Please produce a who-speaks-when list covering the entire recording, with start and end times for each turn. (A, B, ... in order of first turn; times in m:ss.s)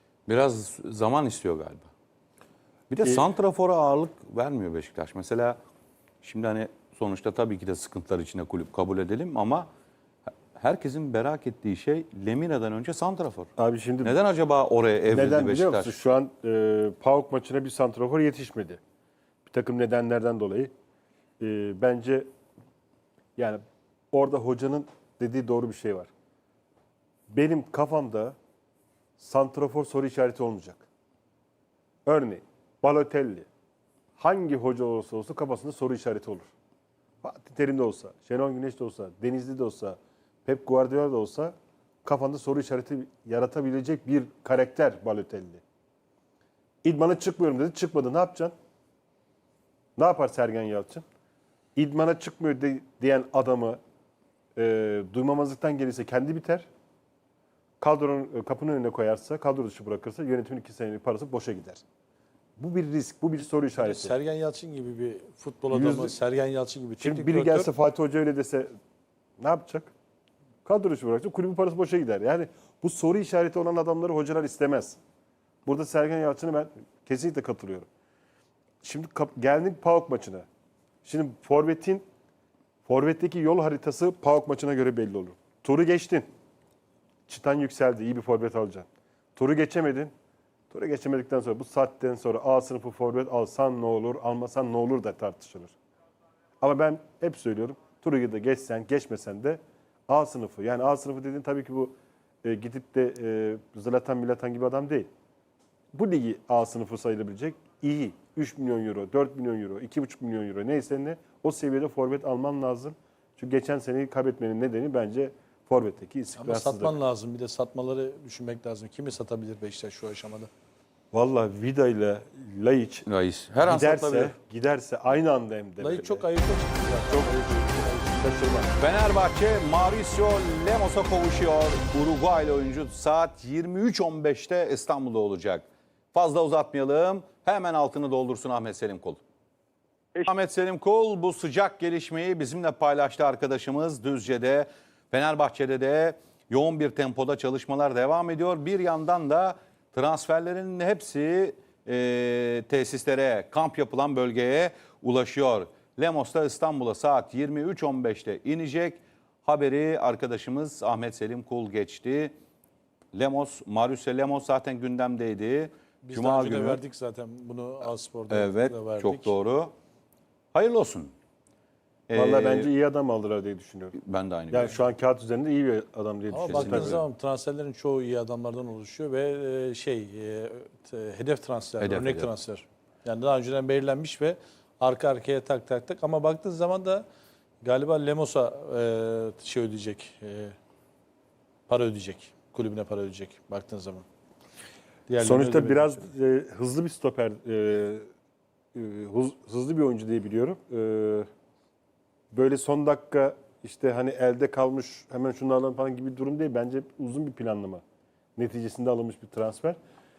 0:00.3-0:01.9 A
0:02.9-0:05.6 A
0:03.0-0:03.3 B
0:06.2-0:09.7 A
0:10.5-0:13.5 A
0:13.6-0:14.2 B
0:14.0-0:16.0 A
0:15.1-0:18.8 B
0:19.5-0:20.7 B
0:21.4-0:22.3 B
0:23.4-0:26.1 B
0:27.3-0:28.4 B
0:29.2-0:30.8 B
0:32.1-0:33.5 B
0:34.2-0:36.5 B
0:37.2-0:45.6 B
0:46.8-0:48.5 B
0:50.0-0:51.0 B
0:51.8-0:53.8 B
0:54.6-0:56.7 B
0:57.8-1:01.8 B
1:02.6-1:04.2 B
1:03.8-1:07.7 C
1:05.7-1:06.1 B
1:07.0-1:08.7 B
1:09.4-1:09.9 B
1:10.6-1:15.0 B
1:15.6-1:17.9 B
1:18.8-1:20.5 B
1:21.0-1:22.0 B
1:22.9-1:26.3 B
1:27.3-1:30.1 B
1:30.7-1:35.7 B
1:36.6-1:45.1 B
1:45.9-1:57.0 B
1:56.4-2:00.5 C
2:01.1-2:03.0 B
2:03.1-2:04.4 A
2:03.6-2:06.3 B
2:05.8-2:08.4 C
2:08.2-2:08.7 B
2:08.8-2:19.2 A
2:20.2-2:42.3 A
2:43.1-2:46.8 A
2:46.0-2:49.3 C
2:48.3-2:49.7 A
2:50.5-2:51.1 A
2:52.1-2:52.7 A
2:52.1-2:54.0 B
2:53.9-2:54.8 A
2:54.5-2:57.0 B
2:56.3-3:07.0 C
2:56.4-2:57.0 A
3:01.8-3:02.3 A
3:07.6-3:10.6 C
3:11.7-3:14.0 C
3:15.1-3:16.0 C
3:15.2-3:18.0 B
3:18.8-3:21.3 B
3:22.3-3:27.8 B
3:28.4-3:29.8 B